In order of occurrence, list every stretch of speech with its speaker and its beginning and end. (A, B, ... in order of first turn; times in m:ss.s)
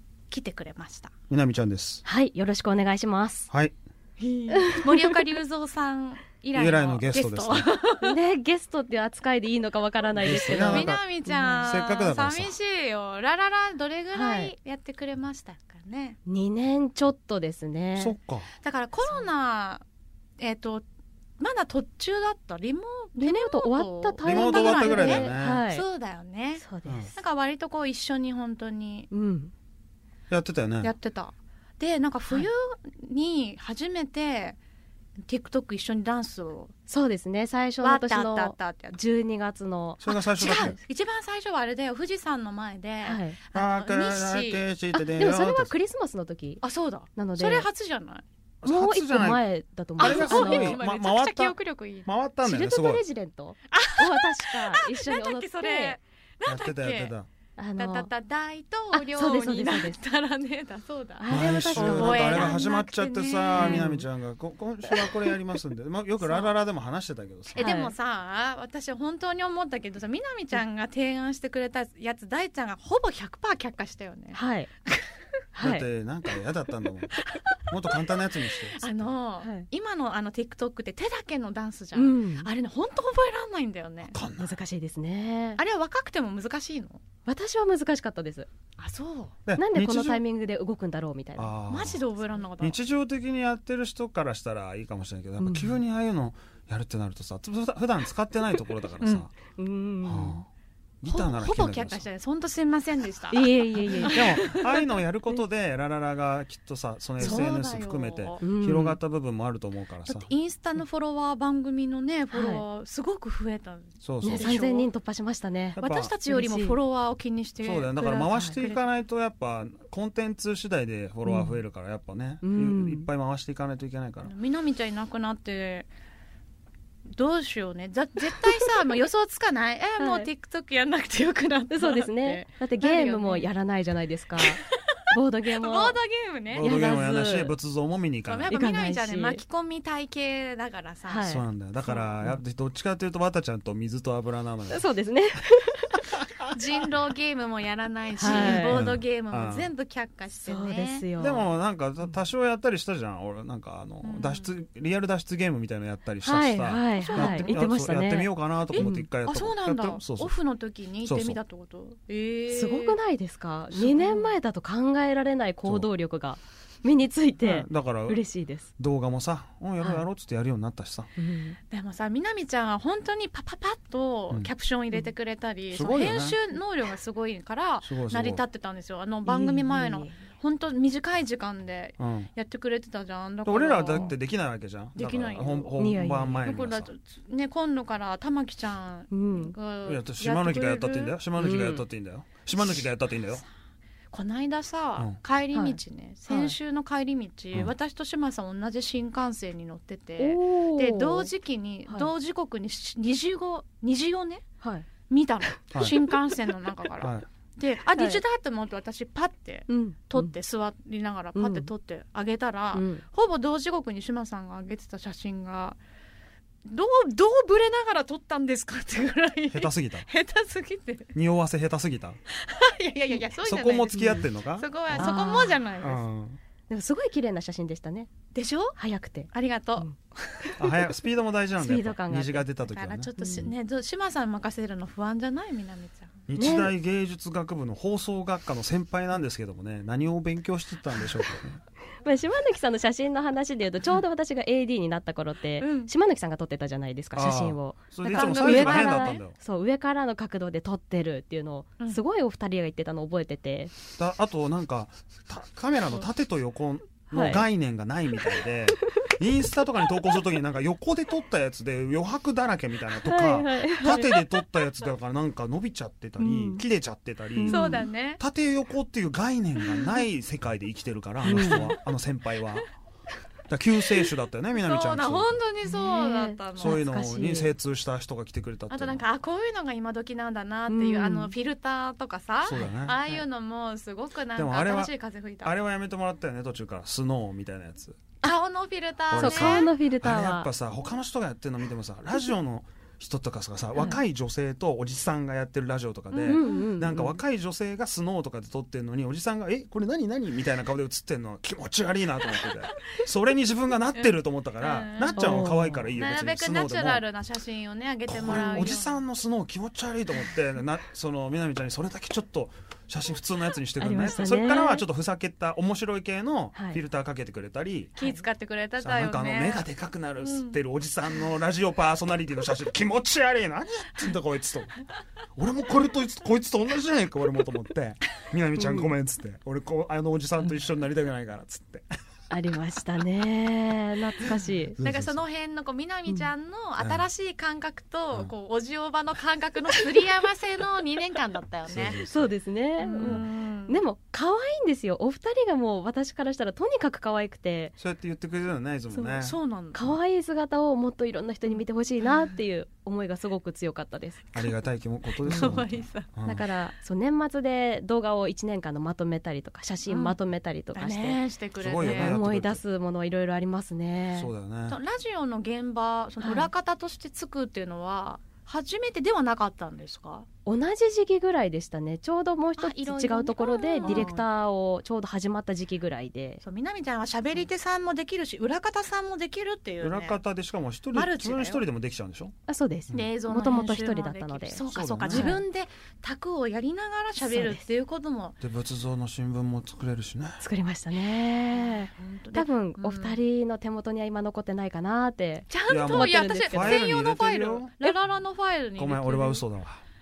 0:00.3-0:01.1 A
0:01.3-0:02.0 B
0:02.0-0:03.5 C
0:03.5-0:03.8 B
0:04.2-0:08.1 A
0:04.5-0:05.2 C
0:06.5-0:07.7 B
0:08.0-0:11.6 C
0:10.2-0:11.0 B
0:10.3-0:16.2 A
0:11.6-0:12.5 B
0:14.1-0:14.5 C
0:16.2-0:18.2 C
0:18.0-0:18.5 B
0:18.6-0:19.8 A
0:20.4-0:20.8 A
0:21.4-0:29.1 A
0:23.2-0:25.8 C
0:24.2-0:25.6 B
0:26.6-0:27.2 C
0:29.1-0:29.5 C
0:30.3-0:30.9 B
0:30.8-0:34.6 A
0:35.3-0:36.7 A
0:36.9-0:40.8 C
0:37.8-0:39.0 A
0:40.0-0:40.8 B
0:40.1-0:44.6 A
0:43.0-0:43.4 C
0:43.5-0:45.7 B
0:44.9-0:46.6 C
0:46.6-0:48.2 A
0:47.1-0:47.7 C
0:48.6-0:53.0 B
0:48.6-0:50.8 C
0:50.0-0:52.1 A
0:52.4-0:56.0 C
0:53.7-0:57.1 A
0:56.4-0:57.3 B
0:57.6-0:58.1 C
0:57.8-1:03.9 A
0:58.9-1:00.0 C
1:01.2-1:02.6 C
1:01.3-1:07.7 B
1:03.5-1:04.0 C
1:06.2-1:06.5 C
1:07.5-1:15.2 A
1:07.6-1:07.9 C
1:14.3-1:14.7 C
1:15.5-1:15.9 C
1:15.6-1:19.1 B
1:17.2-1:18.0 A
1:18.8-1:24.1 A
1:19.4-1:19.7 C
1:21.9-1:22.5 C
1:24.1-1:24.6 B
1:24.4-1:25.6 C
1:25.6-1:27.0 A
1:27.2-1:28.5 C
1:28.8-1:29.3 A
1:29.4-1:30.2 B
1:29.6-1:31.5 C
1:31.4-1:32.0 B
1:31.7-1:32.8 A
1:32.6-1:39.4 B
1:35.4-1:35.8 C
1:39.0-1:39.2 A
1:39.5-1:40.4 C
1:40.0-1:40.5 B
1:41.0-1:42.0 B
1:41.1-1:44.6 A
1:43.3-1:44.5 C
1:44.1-1:50.3 B
1:47.2-1:48.4 A
1:48.4-1:49.0 C
1:50.0-1:54.9 A
1:52.3-1:52.6 C
1:54.0-1:54.6 B
1:54.2-1:56.8 C
1:55.8-1:56.2 B
1:55.8-1:58.8 A
1:57.6-2:04.3 B
1:58.3-1:58.6 C
2:01.2-2:01.6 C
2:02.4-2:03.1 C
2:04.2-2:05.9 A
2:07.1-2:13.5 A
2:10.0-2:10.3 C
2:11.7-2:16.0 C
2:15.5-2:16.7 A
2:16.5-2:18.5 B
2:16.6-2:17.5 C
2:18.3-2:21.3 A
2:18.5-2:19.4 C
2:21.0-2:21.4 C
2:21.2-2:24.9 B
2:24.7-2:26.0 C
2:26.5-2:31.1 A
2:28.2-2:28.8 C
2:28.2-2:29.7 B
2:30.4-2:31.5 C
2:31.2-2:40.3 B
2:34.0-2:34.5 A
2:36.2-2:39.0 C
2:37.0-2:37.6 A
2:38.7-2:43.0 A
2:41.0-2:41.4 B
2:42.5-2:48.7 C
2:43.7-2:44.3 A
2:45.6-2:45.9 B
2:47.4-2:48.2 B
2:48.8-2:51.1 B
2:51.2-2:51.6 C
2:51.7-3:04.2 A
2:55.7-2:56.4 B
2:57.8-2:58.4 B
2:59.2-3:00.1 C
3:02.0-3:02.3 B
3:03.4-3:06.9 B
3:04.9-3:05.8 A
3:05.8-3:06.6 C
3:06.4-3:11.2 A
3:09.1-3:09.5 C
3:09.8-3:13.4 B
3:11.4-3:11.8 C
3:12.6-3:13.4 A
3:14.1-3:24.4 A
3:15.5-3:16.6 C
3:20.2-3:21.3 C
3:24.6-3:24.8 C
3:25.1-3:35.8 A
3:27.0-3:27.2 B
3:27.9-3:28.2 C
3:29.7-3:30.3 C
3:31.4-3:31.7 C
3:32.7-3:33.0 C
3:36.6-3:41.1 A
3:39.5-3:40.1 B
3:41.1-3:42.2 B
3:42.3-3:46.0 A
3:43.4-3:45.1 B
3:43.9-3:44.2 C
3:44.9-3:45.6 C
3:45.8-3:46.4 B
3:46.7-3:48.1 C
3:48.3-3:48.8 A
3:48.8-3:49.9 C
3:49.3-3:50.6 A
3:50.6-3:53.5 B
3:51.6-3:52.5 C
3:52.7-3:56.1 A
3:53.2-3:53.5 C
3:56.3-4:01.6 B
3:56.4-3:56.7 C
4:02.0-4:13.8 C
4:05.6-4:05.9 A
4:07.1-4:09.4 B
4:08.1-4:09.2 A
4:14.0-4:32.7 B
4:17.1-4:17.4 C
4:18.2-4:19.1 C
4:23.0-4:24.4 C
4:26.2-4:26.6 C
4:27.4-4:27.8 C
4:27.5-4:28.2 A
4:31.2-4:31.7 C
4:33.5-4:35.4 B
4:34.5-4:36.8 A
4:35.6-4:37.5 C
4:36.6-4:39.0 B
4:38.7-4:45.6 A
4:40.7-4:41.3 C
4:42.4-4:43.0 B
4:42.5-4:43.2 C
4:44.3-4:48.0 B
4:48.2-4:49.7 A
4:49.1-5:07.0 B
4:49.1-4:50.5 C
4:56.1-4:56.7 A
4:56.2-4:57.2 C
5:03.9-5:09.0 A
5:05.2-5:05.9 C
5:08.1-5:17.9 B
5:13.8-5:14.9 C
5:16.5-5:16.8 C
5:18.0-5:18.2 C
5:18.0-5:19.7 A
5:18.8-5:24.7 B
5:20.2-5:20.6 A
5:25.4-5:31.8 B
5:28.6-5:28.9 C
5:32.3-5:34.8 C
5:34.8-5:35.2 B
5:34.8-5:42.0 A
5:36.8-5:37.1 B
5:41.7-5:42.3 B
5:42.0-5:47.7 C
5:42.8-5:43.8 A
5:47.8-5:49.4 B
5:48.9-5:49.2 C
5:49.2-5:50.0 A
5:49.7-5:54.5 C
5:54.3-5:56.4 B
5:55.2-5:55.6 C
5:55.2-5:56.1 A
5:56.2-6:01.2 C
5:59.8-6:00.2 A
6:00.7-6:02.2 A
6:01.6-6:02.6 B
6:01.8-6:04.3 C
6:04.1-6:04.8 B
6:04.7-6:10.3 A
6:06.2-6:06.5 C
6:10.4-6:16.4 C
6:12.6-6:14.2 A
6:13.8-6:14.1 B
6:16.4-6:20.2 A
6:19.8-6:22.3 B
6:20.9-6:21.6 A
6:22.5-6:25.4 C
6:22.9-6:28.4 A
6:24.7-6:25.4 B
6:27.2-6:27.6 C
6:28.4-6:30.4 B
6:30.4-6:36.8 C
6:31.5-6:33.2 A
6:35.5-6:39.4 A
6:35.7-6:37.7 B
6:38.8-6:39.8 B